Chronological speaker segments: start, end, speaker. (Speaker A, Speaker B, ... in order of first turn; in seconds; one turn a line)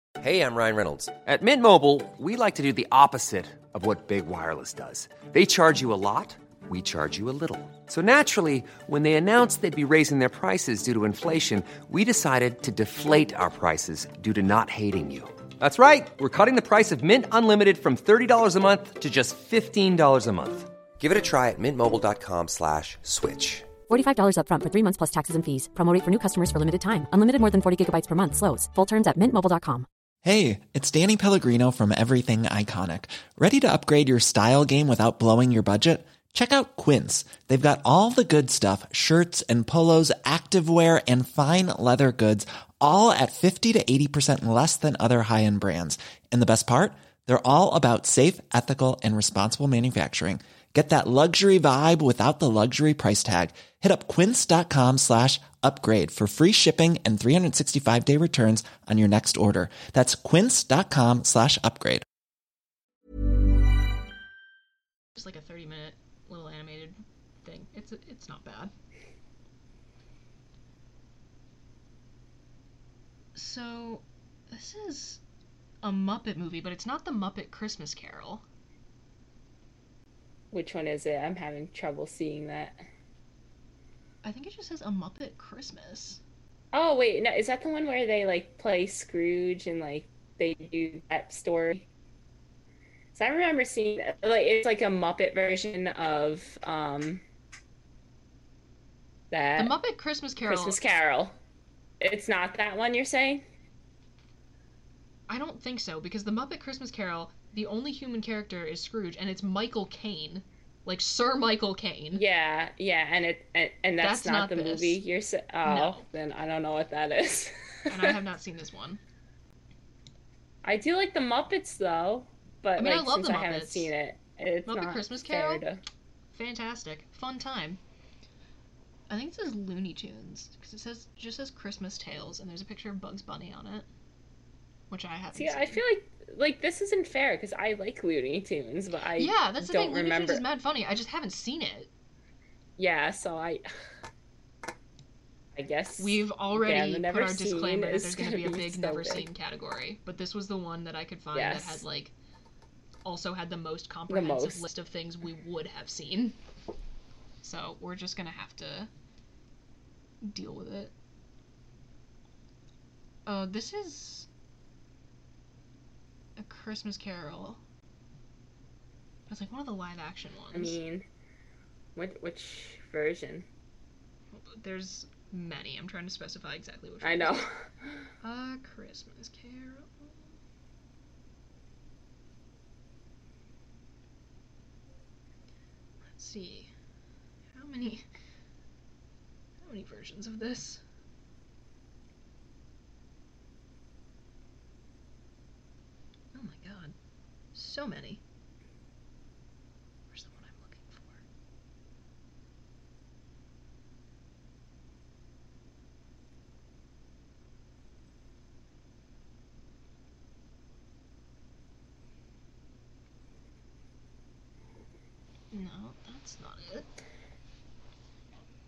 Speaker A: 0.2-23.7
Speaker B: 23.9-29.9
Speaker C: 30.2-62.0
Speaker D: 65.2-68.7
Speaker D: 73.3-75.2
Speaker D: 75.8-78.4
Speaker E: 80.5-82.8
Speaker D: 84.2-86.2
Speaker E: 86.7-91.9
Speaker E: 93.2-97.2
Speaker E: 99.3-99.7
Speaker D: 99.6-100.8
Speaker E: 100.4-101.4
Speaker E: 102.0-103.4
Speaker D: 105.3-112.2
Speaker E: 112.1-118.1
Speaker D: 114.0-115.0
Speaker D: 115.6-116.0
Speaker D: 117.9-119.0
Speaker E: 120.6-125.8
Speaker D: 122.8-123.9
Speaker D: 124.7-125.6
Speaker D: 126.3-127.8
Speaker D: 129.1-133.9
Speaker D: 134.9-135.8
Speaker E: 135.3-140.4
Speaker D: 139.2-141.9
Speaker E: 142.8-143.7
Speaker E: 145.5-149.3
Speaker D: 146.0-152.1
Speaker E: 151.3-151.8
Speaker D: 153.1-156.4
Speaker E: 154.1-154.7
Speaker D: 157.4-158.9
Speaker D: 160.2-160.9
Speaker D: 163.3-164.3
Speaker D: 166.4-167.6
Speaker D: 169.3-170.8
Speaker E: 170.5-171.1
Speaker E: 171.9-173.5
Speaker D: 174.3-177.4
Speaker E: 177.0-177.9
Speaker D: 178.2-180.3
Speaker D: 186.1-186.7
Speaker D: 187.5-188.1
Speaker D: 189.6-190.8
Speaker D: 196.3-196.9
Speaker D: 197.6-198.2
Speaker D: 200.1-201.2
Speaker D: 215.5-216.9